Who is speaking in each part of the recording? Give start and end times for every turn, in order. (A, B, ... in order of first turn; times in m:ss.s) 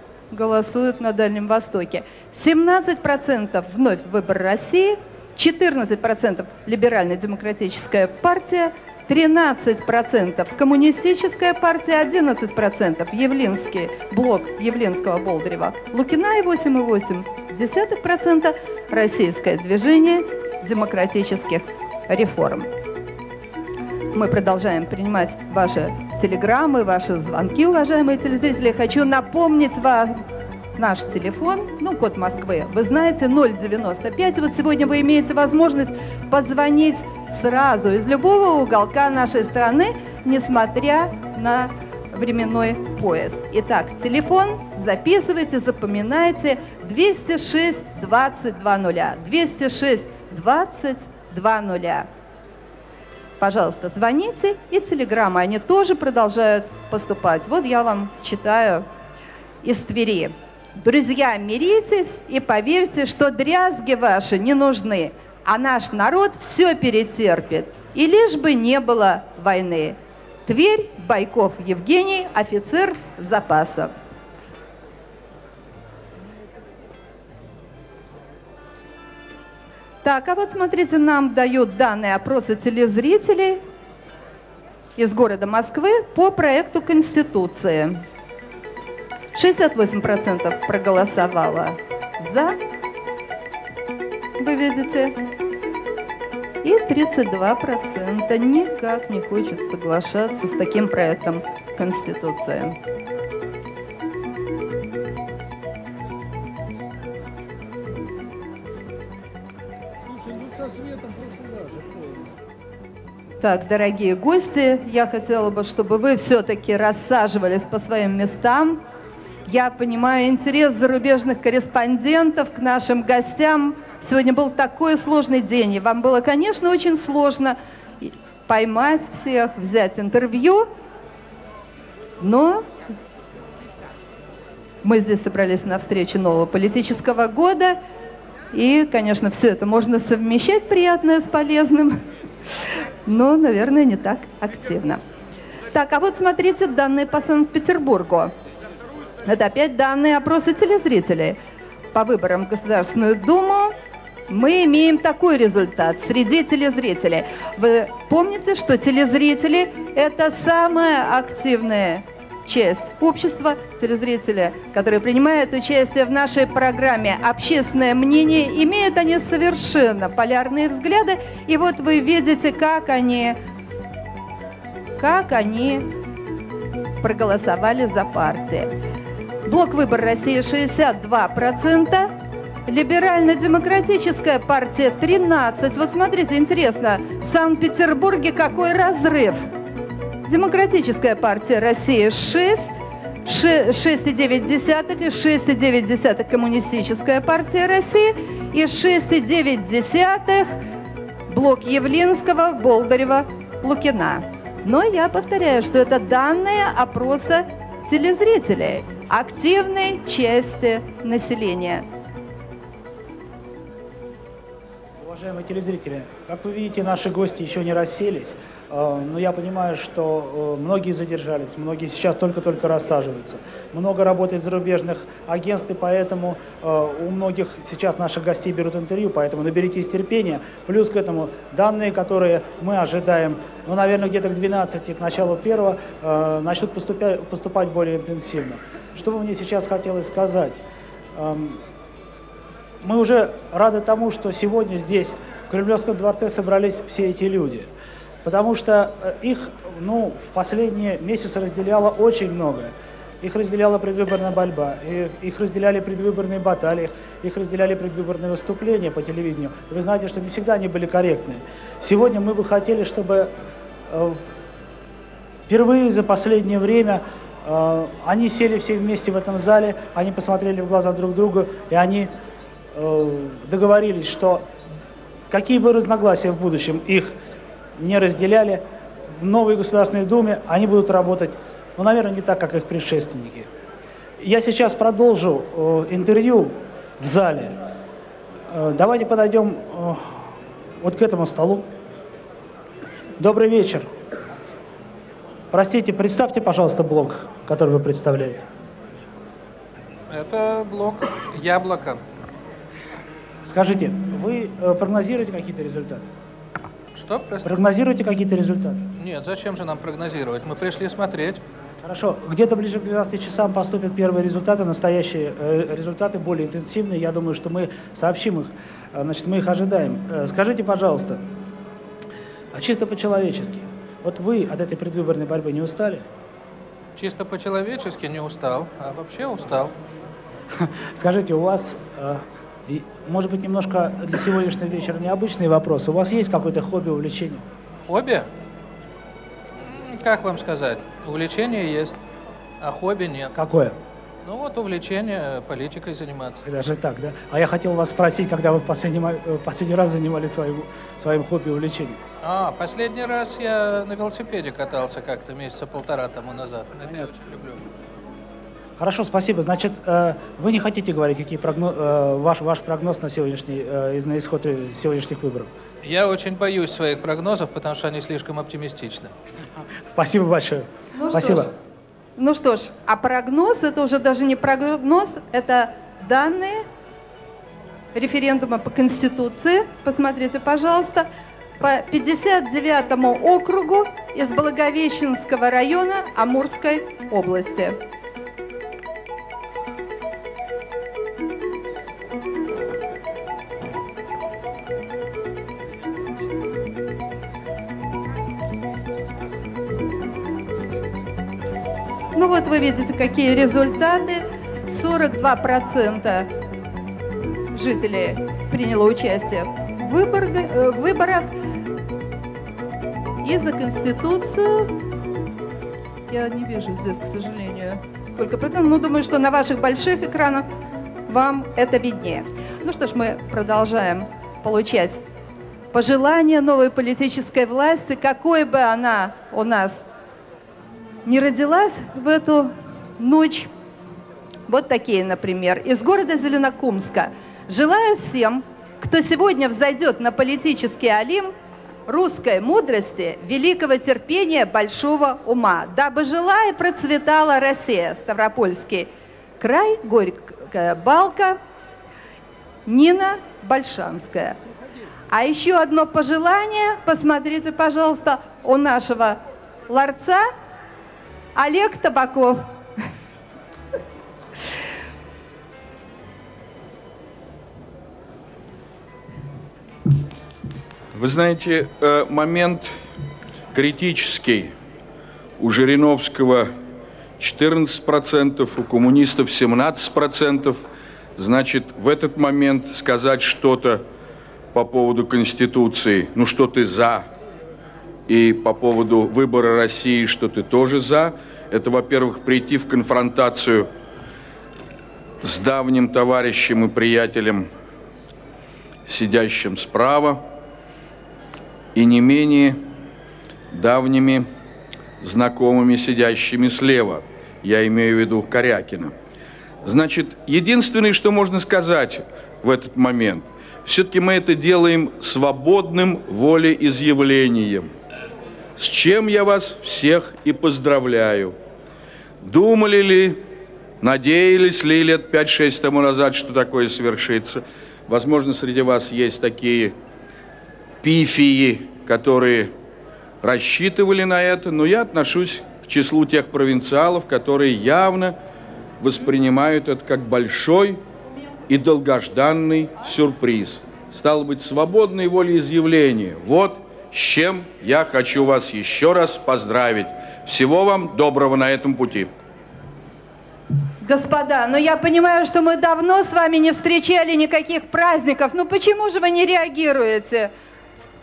0:00.3-0:22.7 A
0:24.1-0:30.2 A
0:30.8-0:52.1 A
0:53.4-0:58.8 A
0:59.6-1:13.9 A
1:20.0-1:23.6 A
1:25.0-1:28.0 A
1:29.3-1:32.6 A
1:34.4-1:35.2 A
1:36.6-1:42.8 A
1:53.4-1:58.8 A
1:59.5-2:10.7 A
2:12.2-2:12.6 A
2:14.8-2:17.8 A
2:18.5-2:22.0 A
2:23.0-2:25.0 A
2:25.7-2:28.3 A
2:29.2-2:31.4 A
2:31.9-2:33.7 A
2:34.3-2:53.4 A
2:55.0-2:55.9 A
2:57.0-2:58.7 A
2:59.4-3:02.1 A
3:02.7-3:09.5 A
3:10.3-3:20.6 A
3:21.3-3:31.8 A
3:35.0-4:00.6 B
4:01.1-4:01.6 B
4:02.8-4:07.7 B
4:08.2-4:23.3 B
4:23.9-4:24.2 B
4:25.5-4:32.1 B
4:32.7-4:34.4 B
4:35.3-4:37.2 B
4:37.8-4:38.6 B
4:39.2-4:43.5 B
4:44.2-4:47.6 B
4:48.5-4:50.2 B
4:50.8-4:51.7 B
4:53.2-4:53.9 B
4:55.5-4:58.5 B
5:00.1-5:02.0 C
5:03.4-5:06.0 B
5:06.9-5:07.5 C
5:07.4-5:08.8 B
5:09.0-5:11.4 C
5:11.8-5:21.2 B
5:22.5-5:26.0 B
5:27.0-5:29.7 C
5:30.6-5:37.4 B
5:37.8-5:38.3 C
5:39.6-5:41.9 C
5:42.6-5:43.3 C
5:43.3-5:43.8 B
5:44.2-5:46.4 C
5:46.4-5:52.0 B
5:52.2-5:57.7 C
5:58.8-6:05.5 B
6:05.8-6:09.1 C
6:09.9-6:11.5 B
6:11.0-6:11.5 A
6:12.2-6:16.6 A
6:17.9-6:21.1 A
6:21.6-6:27.8 A
6:42.1-6:46.3 A
6:47.5-6:51.3 A
6:53.2-6:54.7 A
6:56.1-7:00.5 A
7:01.1-7:05.0 A
7:05.7-7:09.8 A
7:11.0-7:13.5 A
7:14.5-7:21.3 A
7:21.9-7:28.9 A
7:29.4-7:31.4 A
7:32.7-7:34.4 A
7:35.1-7:40.3 A
7:41.4-7:42.5 A
7:50.9-7:52.7 D
7:53.5-7:54.5 D
7:55.4-7:56.5 D
7:57.2-8:03.8 D
8:04.5-8:07.0 D
8:08.1-8:13.7 D
8:15.2-8:17.5 D
8:18.8-8:20.2 D
8:21.7-8:22.6 D
8:23.5-8:24.3 D
8:25.0-8:28.9 D
8:29.6-8:37.7 D
8:38.6-8:41.4 D
8:42.2-8:43.2 D
8:43.8-8:49.8 D
8:50.8-8:52.5 D
8:53.2-8:58.2 D
8:58.8-9:00.8 D
9:01.5-9:12.1 D
9:13.8-9:20.3 A